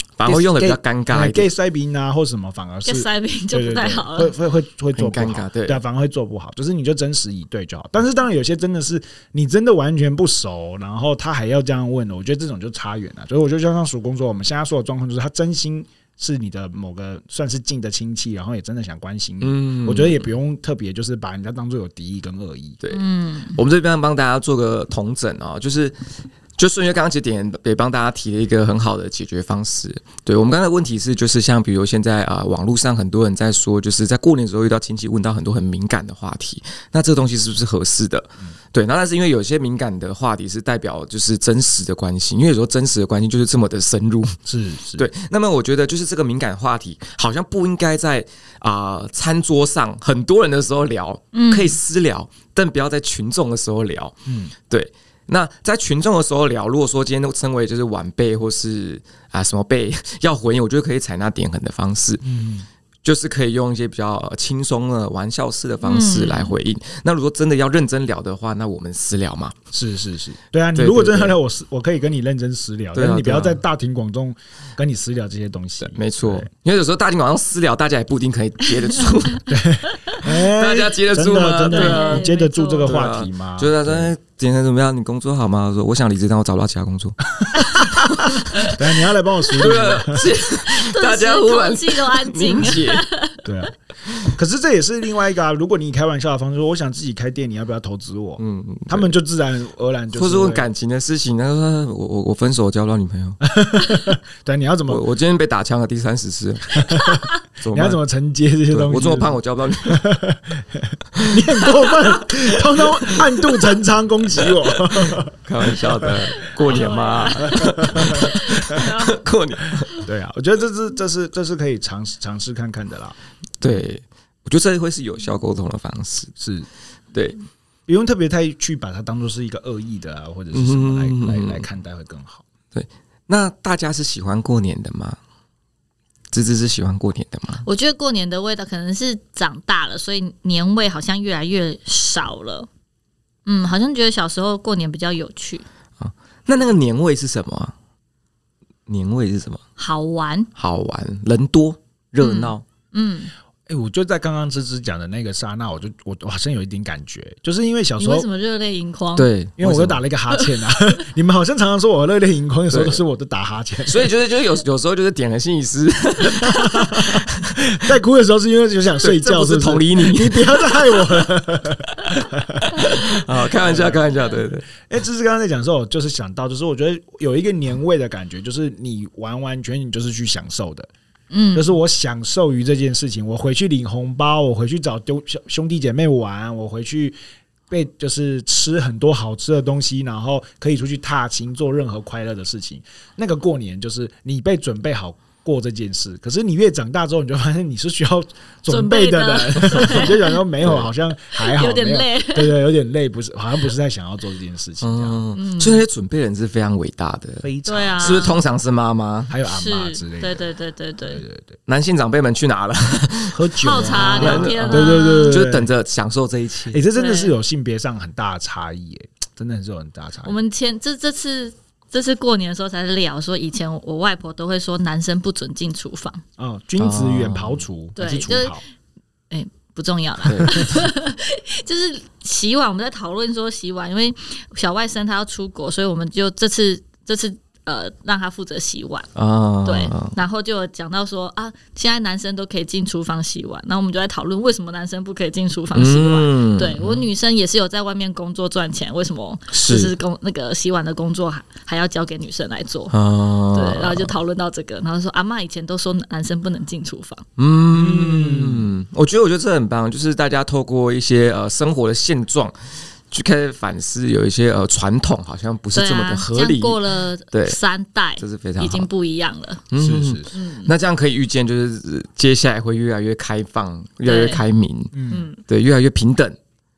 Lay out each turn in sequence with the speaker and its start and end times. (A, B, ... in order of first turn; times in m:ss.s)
0:00.2-0:01.5 A
0:00.2-0:22.8 B
0:02.9-0:04.3 C
0:05.0-0:05.8 A
0:19.4-0:20.3 A
0:22.9-0:23.6 C
0:23.5-0:26.0 A
0:26.6-0:44.4 A
0:44.5-0:45.1 B
0:45.0-1:02.2 A
0:51.3-0:51.8 C
0:54.3-0:54.5 B
1:02.2-1:02.7 B
1:03.0-1:09.6 A
1:05.8-1:06.5 C
1:09.7-1:16.5 B
1:10.8-1:11.4 A
1:12.9-1:13.6 A
1:15.8-1:19.5 A
1:19.5-1:24.1 B
1:20.2-1:22.3 A
1:21.7-1:23.0 C
1:22.8-1:28.8 A
1:27.4-1:30.3 B
1:29.6-1:33.0 A
1:30.6-1:33.5 C
1:33.4-1:40.7 B
1:38.4-1:39.2 A
1:40.1-1:43.4 A
1:43.4-1:45.0 B
1:44.9-1:46.9 A
1:46.7-1:56.3 B
1:47.6-1:48.0 A
1:48.7-1:50.0 A
1:51.2-1:51.7 A
1:52.6-1:53.4 A
1:54.4-2:00.0 A
1:56.4-1:59.2 C
1:57.4-1:58.8 B
1:59.8-2:03.2 B
2:03.6-2:06.3 A
2:06.4-2:06.7 B
2:07.9-2:12.4 B
2:10.5-2:11.7 A
2:12.7-2:15.2 A
2:16.3-2:17.6 A
2:17.6-2:22.7 C
2:23.5-2:25.6 C
2:26.0-2:27.7 A
2:28.9-2:29.6 A
2:29.8-2:30.5 C
2:30.6-2:32.6 A
2:32.2-2:33.3 C
2:33.7-2:38.3 B
2:38.0-2:39.3 C
2:39.2-2:40.0 A
2:39.6-2:44.1 B
2:40.3-2:41.0 C
2:42.7-2:43.0 A
2:43.9-2:47.5 A
2:46.4-2:54.0 B
2:49.0-2:51.2 A
2:52.7-2:54.7 A
2:54.7-3:00.9 B
3:01.3-3:01.7 C
3:01.6-3:07.2 B
3:07.7-3:25.2 B
3:18.7-3:20.4 C
3:20.6-3:20.9 A
3:21.3-3:22.6 C
3:24.8-3:29.3 A
3:25.3-3:25.8 C
3:27.4-3:28.3 B
3:27.7-3:28.4 C
3:29.3-3:30.5 B
3:29.5-3:31.2 C
3:31.1-3:31.6 B
3:31.7-3:36.8 A
3:33.3-3:35.7 B
3:33.6-3:35.4 C
3:36.7-3:40.4 B
3:37.0-3:37.3 C
3:40.2-3:46.2 C
3:46.4-3:48.6 B
3:46.8-3:47.6 A
3:48.0-3:48.6 C
3:49.3-3:59.1 C
3:50.2-3:50.8 A
3:59.2-4:00.2 A
3:59.6-4:13.0 C
4:05.7-4:07.0 A
4:09.5-4:09.9 A
4:12.9-4:14.1 A
4:13.5-4:17.2 C
4:17.4-4:26.8 A
4:17.7-4:18.7 B
4:25.7-4:29.6 C
4:27.3-4:27.6 A
4:28.2-4:28.9 A
4:29.7-4:34.9 A
4:29.8-4:30.3 B
4:30.3-4:30.7 C
4:34.0-4:34.4 C
4:34.9-4:35.2 B
4:35.1-4:35.4 C
4:35.5-4:36.4 A